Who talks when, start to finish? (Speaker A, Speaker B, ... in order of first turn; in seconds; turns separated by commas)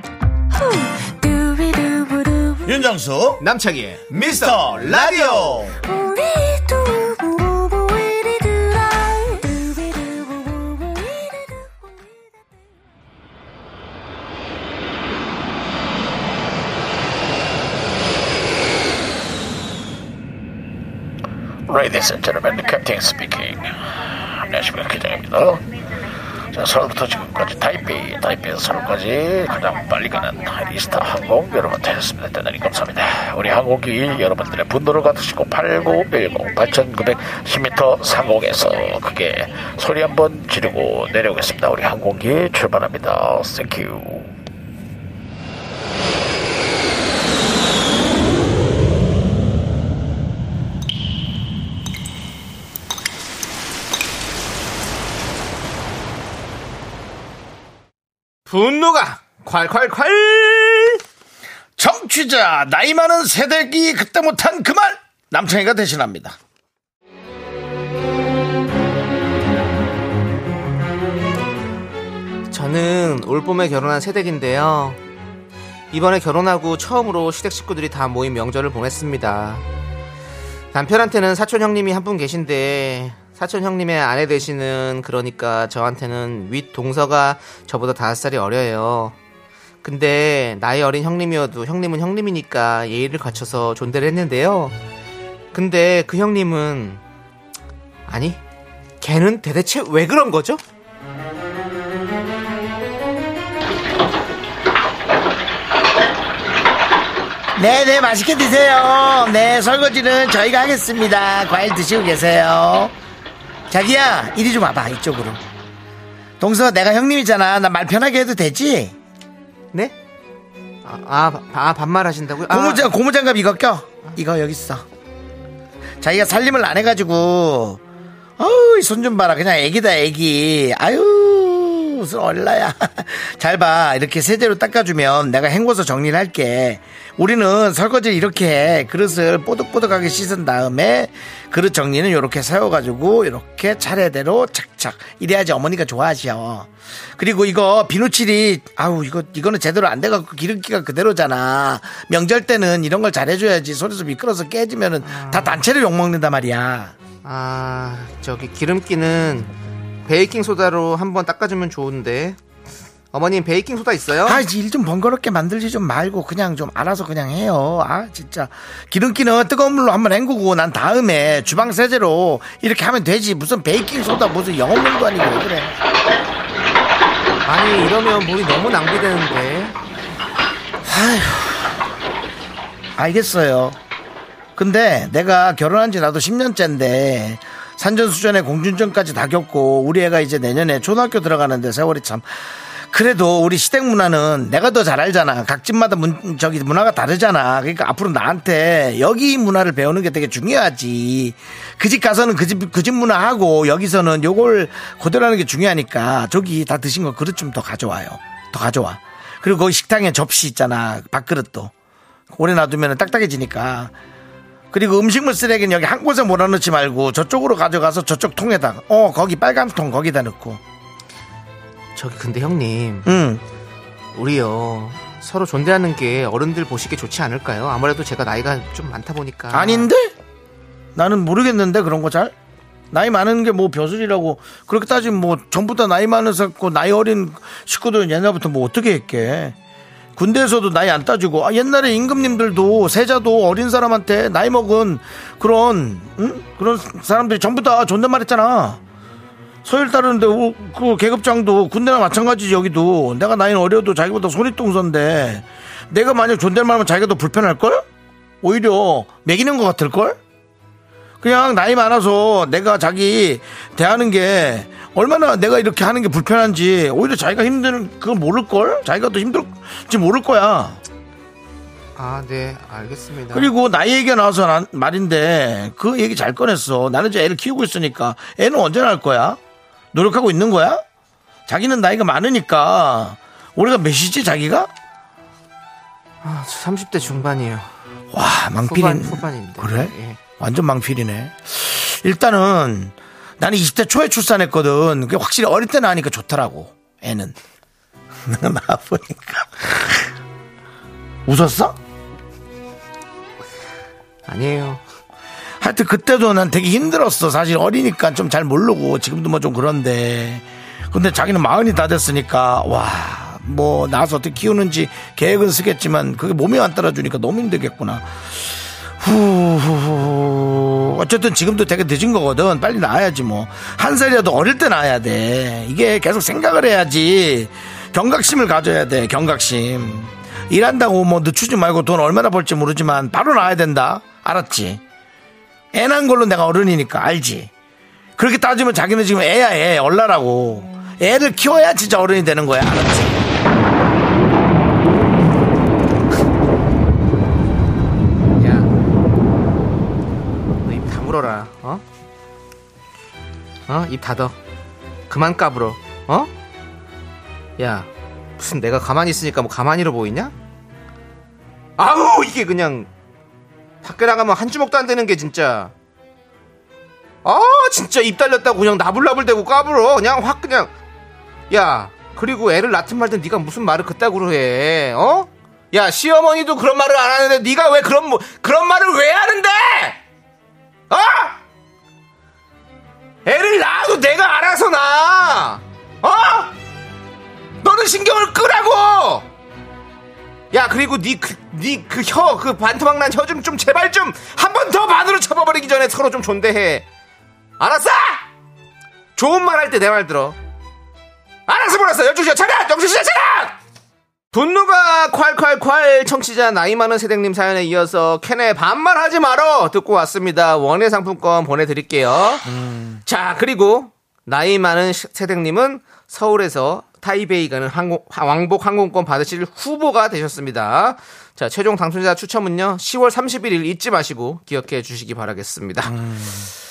Speaker A: 0.5-2.8, Speaker B: 2.6-3.4, Speaker C: 3.4-5.7, Speaker B: 4.1-5.8, Speaker A: 5.8-12.3, Speaker D: 21.7-23.6, Speaker D: 24.5-25.6, Speaker B: 24.6-25.1, Speaker D: 26.6-44.2, Speaker B: 26.6-27.8, Speaker B: 28.3-29.1, Speaker B: 34.3-35.6, Speaker C: 58.5-61.0, Speaker B: 61.8-66.4, Speaker C: 72.5-75.0, Speaker C: 75.9-79.6, Speaker C: 80.7-89.1, Speaker C: 89.8-94.7, Speaker C: 95.5-97.0, Speaker C: 98.1-98.4, Speaker C: 99.0-100.6, Speaker B: 107.5-112.9, Speaker B: 113.7-115.4, Speaker B: 116.4-118.9, Speaker C: 120.8-122.9, Speaker B: 122.5-124.8, Speaker B: 126.0-127.8, Speaker B: 128.4-156.9, Speaker C: 155.0-155.6, Speaker C: 157.2-159.5, Speaker C: 160.1-162.4, Speaker C: 163.1-164.4, Speaker B: 164.2-175.8, Speaker C: 177.4-179.7, Speaker B: 180.8-181.7, Speaker B: 183.0-183.8, Speaker B: 184.6-192.2, Speaker B: 192.9-211.7, Speaker B: 212.3-213.9, Speaker B: 214.7-220.6, Speaker C: 221.9-223.1, Speaker B: 223.1-223.4, Speaker C: 224.1-229.9, Speaker B: 229.5-230.1, Speaker B: 230.9-232.3, Speaker B: 232.9-239.6, Speaker B: 240.2-248.8, Speaker B: 249.6-257.8, Speaker B: 258.4-260.2, Speaker B: 261.2-270.8, Speaker C: 272.0-273.5, Speaker B: 273.3-279.4, Speaker B: 279.9-280.8, Speaker B: 281.5-284.7, Speaker C: 286.2-287.7, Speaker B: 288.1-297.4, Speaker C: 288.6-290.2, Speaker B: 298.2-300.1, Speaker B: 301.2-301.8, Speaker C: 304.3-304.8, Speaker B: 305.6-334.8, Speaker B: 335.7-337.5, Speaker B: 338.2-343.3, Speaker C: 348.4-348.7, Speaker C: 350.6-351.8, Speaker C: 353.7-354.3, Speaker C: 355.1-356.3, Speaker C: 357.6-360.3, Speaker C: 361.8-362.9, Speaker C: 363.8-365.7, Speaker C: 367.2-370.7, Speaker C: 371.5-380.0, Speaker C: 380.9-381.4, Speaker C: 383.2-386.5, Speaker C: 387.6-389.2, Speaker C: 390.5-396.8, Speaker C: 397.6-398.2, Speaker C: 399.1-400.4, Speaker C: 401.5-403.6, Speaker C: 404.3-412.5, Speaker B: 412.4-413.0, Speaker C: 413.1-425.9, Speaker B: 425.8-426.5